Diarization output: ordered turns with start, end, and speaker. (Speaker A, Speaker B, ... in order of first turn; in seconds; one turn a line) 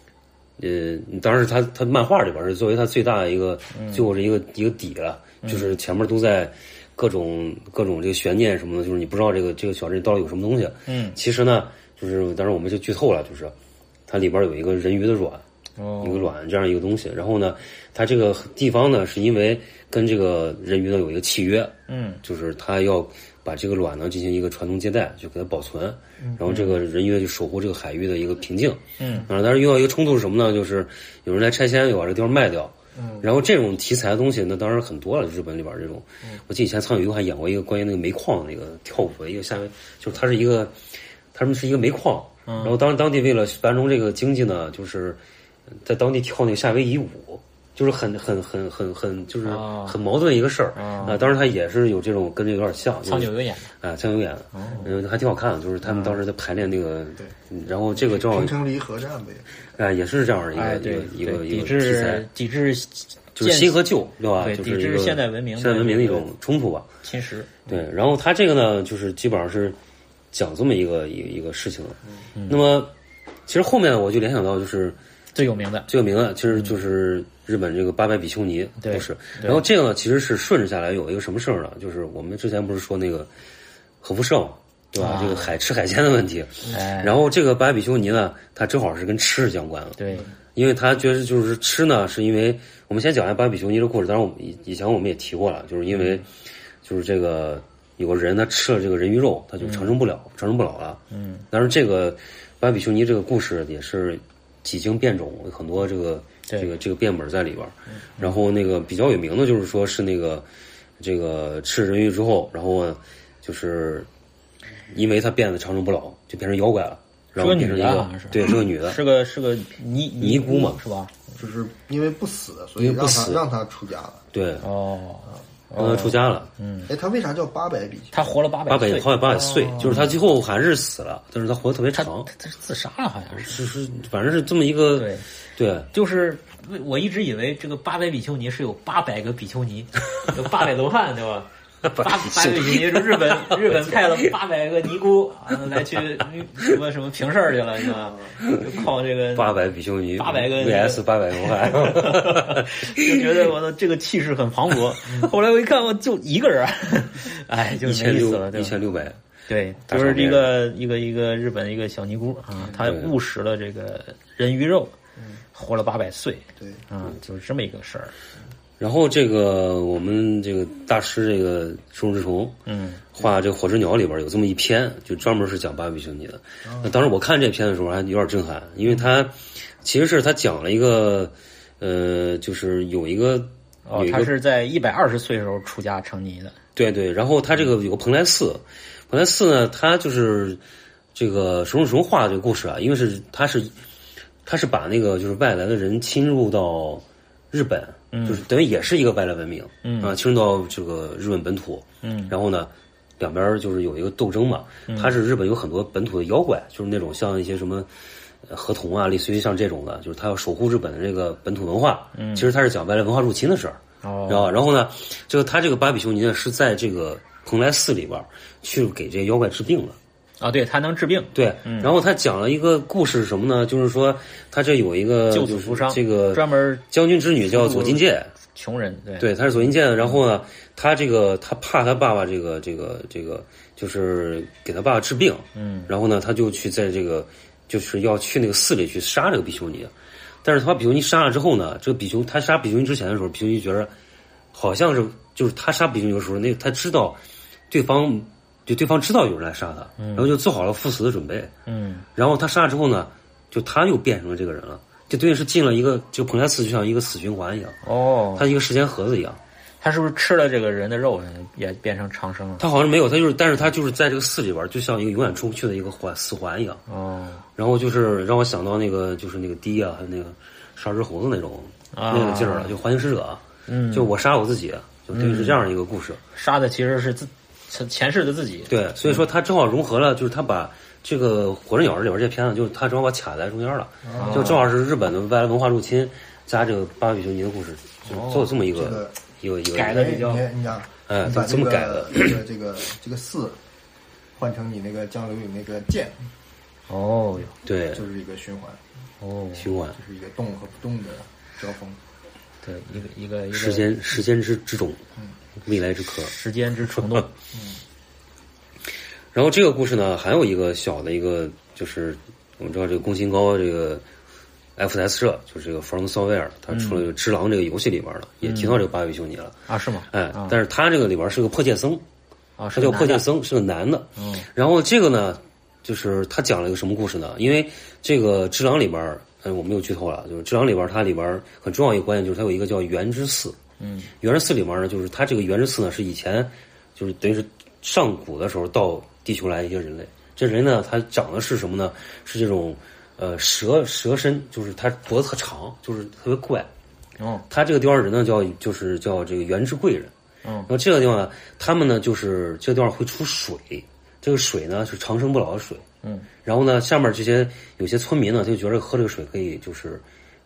Speaker A: 0.6-13.5
Speaker B: 3.7-4.1
Speaker B: 5.4-5.8
Speaker B: 10.9-11.2
Speaker A: 14.1-15.4
Speaker B: 15.8-16.3
Speaker A: 16.0-40.8
Speaker B: 21.9-22.2
Speaker B: 26.5-26.8
Speaker B: 29.0-29.3
Speaker C: 33.0-33.3
Speaker A: 41.3-45.2
Speaker B: 42.5-42.8
Speaker A: 45.8-58.6
Speaker B: 49.4-50.0
Speaker B: 50.8-51.3
Speaker B: 53.0-53.7
Speaker B: 54.5-54.9
Speaker B: 55.8-56.2
Speaker C: 58.0-59.6
Speaker A: 59.8-62.3
Speaker B: 60.5-63.8
Speaker A: 63.4-66.9
Speaker B: 64.4-66.3
Speaker B: 67.0-67.6
Speaker A: 67.7-69.8
Speaker A: 70.3-72.9
Speaker B: 72.3-72.6
Speaker A: 73.5-75.0
Speaker B: 75.3-75.9
Speaker A: 75.9-83.3
Speaker B: 78.8-79.6
Speaker A: 84.0-90.0
Speaker B: 85.0-85.5
Speaker B: 86.7-87.2
Speaker B: 90.0-90.3
Speaker A: 90.5-96.3
Speaker B: 95.9-96.2
Speaker A: 96.8-101.0
Speaker B: 99.6-100.0
Speaker B: 101.1-101.4
Speaker A: 101.5-110.5
Speaker A: 111.0-114.1
Speaker A: 114.9-119.0
Speaker B: 117.4-121.1
Speaker A: 120.2-120.8
Speaker C: 121.3-124.2
Speaker A: 122.8-123.4
Speaker A: 124.3-124.7
Speaker B: 124.6-126.9
Speaker A: 125.8-126.5
Speaker C: 126.9-128.2
Speaker B: 128.1-129.1
Speaker A: 128.7-132.3
Speaker C: 129.3-130.0
Speaker B: 129.8-130.2
Speaker B: 131.9-133.6
Speaker A: 133.4-135.9
Speaker B: 135.0-135.3
Speaker B: 135.9-149.7
Speaker A: 141.8-144.2
Speaker A: 149.3-153.1
Speaker B: 150.2-158.8
Speaker A: 157.8-159.2
Speaker B: 159.5-164.9
Speaker A: 159.9-160.5
Speaker A: 162.7-163.1
Speaker B: 165.5-168.1
Speaker C: 166.6-166.8
Speaker A: 168.8-172.6
Speaker B: 172.7-173.0
Speaker A: 173.1-184.3
Speaker C: 176.6-177.0
Speaker B: 183.9-186.6
Speaker A: 186.8-190.6
Speaker A: 191.2-193.7
Speaker A: 194.5-207.9
Speaker B: 198.1-198.4
Speaker B: 199.8-200.2
Speaker B: 202.0-202.3
Speaker B: 204.9-205.2
Speaker A: 208.5-220.0
Speaker B: 212.1-212.5
Speaker B: 214.0-214.5
Speaker B: 220.4-221.9
Speaker A: 221.3-228.3
Speaker B: 225.3-226.8
Speaker B: 227.4-230.2
Speaker A: 229.2-239.9
Speaker B: 235.6-235.9
Speaker A: 240.4-243.9
Speaker A: 244.5-251.5
Speaker B: 250.0-250.3
Speaker B: 251.7-252.1
Speaker A: 252.2-257.8
Speaker B: 257.8-258.5
Speaker A: 258.4-259.4
Speaker B: 259.8-262.6
Speaker A: 262.6-266.8
Speaker B: 266.9-267.4
Speaker A: 267.6-276.2
Speaker B: 271.9-272.8
Speaker B: 273.7-274.1
Speaker B: 275.1-275.6
Speaker B: 276.4-279.2
Speaker A: 278.7-290.0
Speaker C: 284.0-284.7
Speaker B: 284.2-284.6
Speaker B: 288.1-288.5
Speaker C: 288.4-289.2
Speaker B: 289.7-290.5
Speaker C: 289.8-293.6
Speaker A: 291.1-292.4
Speaker C: 294.4-296.3
Speaker B: 296.9-297.6
Speaker A: 297.6-298.1
Speaker C: 297.9-298.8
Speaker B: 299.2-299.7
Speaker A: 299.6-300.0
Speaker C: 299.9-302.0
Speaker B: 302.6-303.9
Speaker A: 303.5-305.0
Speaker A: 305.6-306.3
Speaker B: 306.2-307.3
Speaker C: 307.5-307.8
Speaker A: 309.3-314.0
Speaker A: 314.8-319.6
Speaker B: 316.7-317.1
Speaker B: 318.4-318.8
Speaker B: 319.7-320.6
Speaker A: 320.1-322.0
Speaker B: 322.6-323.2
Speaker A: 322.8-333.6
Speaker B: 324.2-324.5
Speaker B: 333.8-334.1
Speaker A: 334.2-346.7
Speaker B: 347.2-347.4
Speaker A: 347.5-350.1
Speaker B: 350.4-350.7
Speaker A: 350.7-355.9
Speaker A: 356.4-360.0